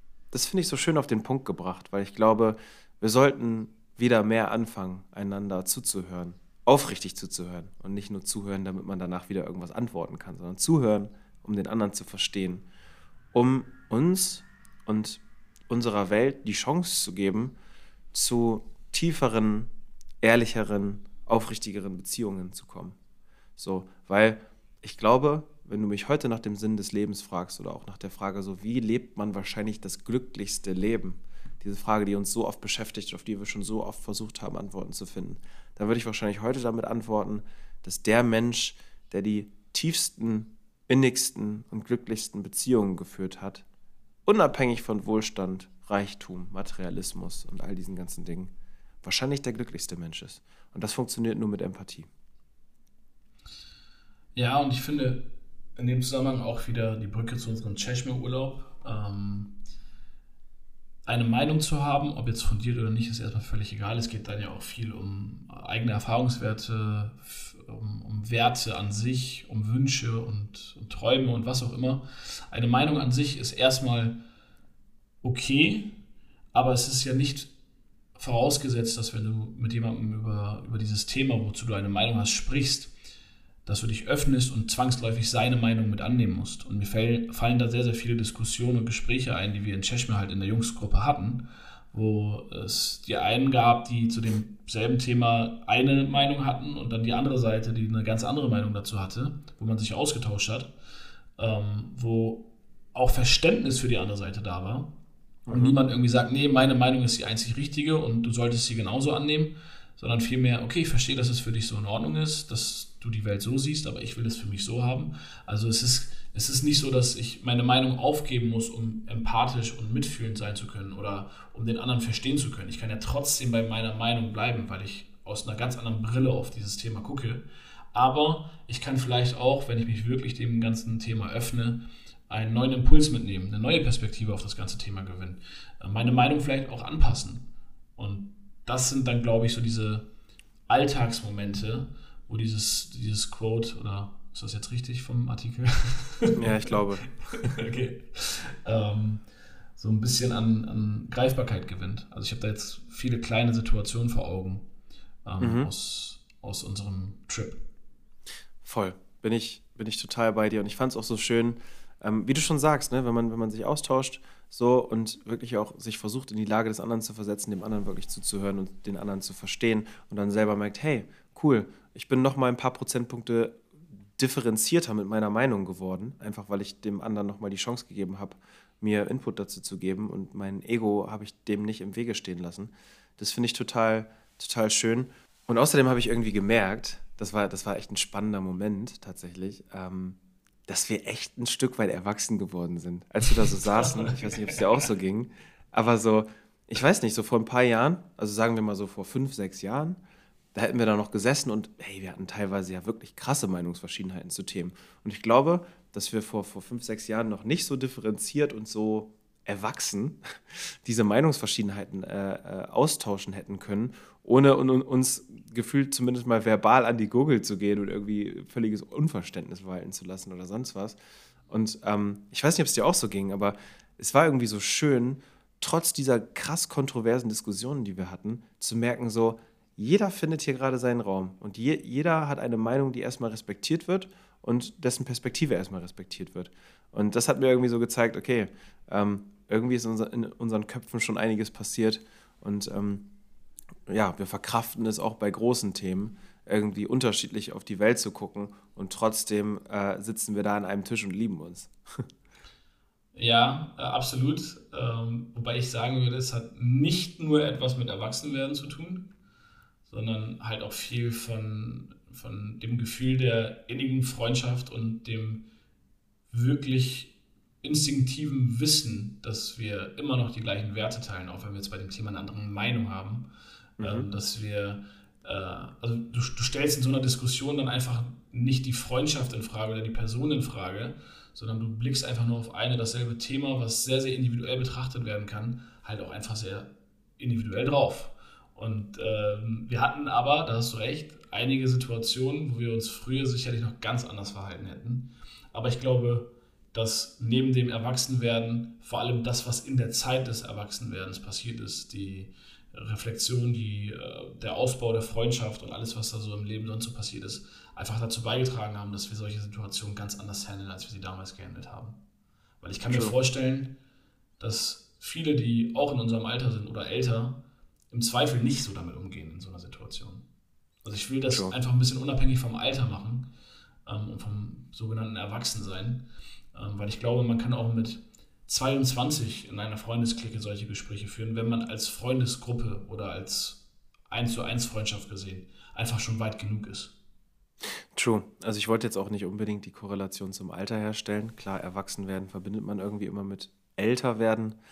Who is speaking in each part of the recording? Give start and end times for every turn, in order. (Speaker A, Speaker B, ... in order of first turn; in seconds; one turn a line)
Speaker A: 0.3-12.7
Speaker A: 13.3-17.6
Speaker A: 18.1-19.7
Speaker A: 20.2-23.0
Speaker A: 23.6-43.6
Speaker A: 44.3-48.5
Speaker A: 49.0-52.1
Speaker B: 54.4-59.6
Speaker B: 61.0-74.2
Speaker B: 75.2-76.0
Speaker B: 76.5-77.5
Speaker B: 78.2-82.9
Speaker B: 83.7-100.7
Speaker B: 101.4-104.9
Speaker A: 105.5-105.8
Speaker B: 105.5-140.1
Speaker B: 140.7-154.7
Speaker A: 146.3-147.1
Speaker B: 155.2-157.6
Speaker A: 155.4-155.7
Speaker A: 158.6-173.7
Speaker A: 174.2-200.0
Speaker B: 193.7-194.6
Speaker A: 200.5-221.0
Speaker A: 221.5-243.1
Speaker A: 243.9-252.1
Speaker B: 253.2-259.1
Speaker B: 259.9-265.5
Speaker B: 266.3-273.3
Speaker A: 273.8-274.1
Speaker B: 273.8-312.0
Speaker B: 312.6-313.8
Speaker B: 314.4-320.3
Speaker B: 320.8-323.3
Speaker A: 321.3-321.6
Speaker B: 323.9-336.9
Speaker A: 337.6-344.6